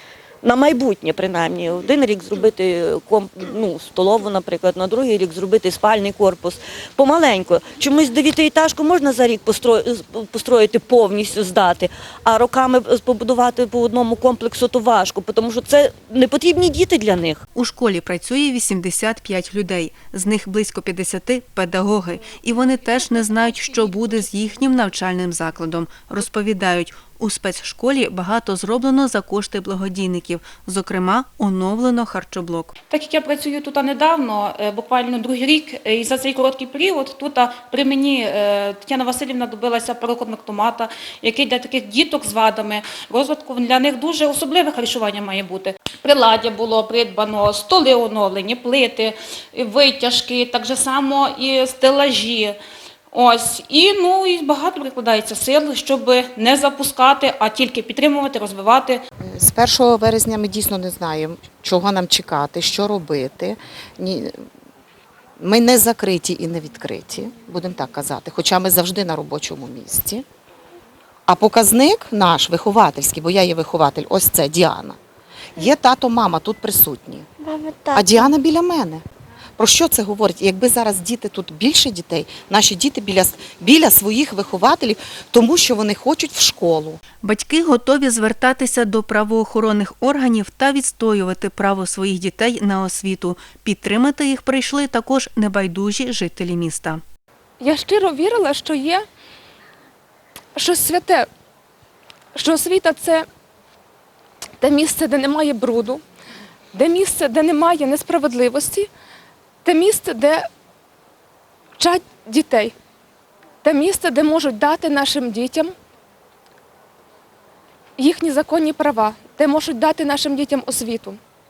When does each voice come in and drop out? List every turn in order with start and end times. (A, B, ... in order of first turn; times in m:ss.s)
0:00.4-0:17.4 A
0:17.6-0:32.7 B
0:32.9-0:52.6 C
0:53.1-0:59.0 C
0:59.3-1:04.4 D
1:05.4-1:10.2 D
1:11.3-1:15.0 D
1:15.6-1:19.0 D
1:19.6-1:27.0 D
1:27.2-1:37.0 B
1:37.6-1:39.0 E
1:40.6-1:41.3 E
1:42.4-1:43.2 E
1:44.6-1:46.0 E
1:46.7-1:48.9 E
1:49.6-1:50.4 E
1:51.8-1:52.7 E
1:53.6-1:55.7 E
1:58.0-2:01.2 E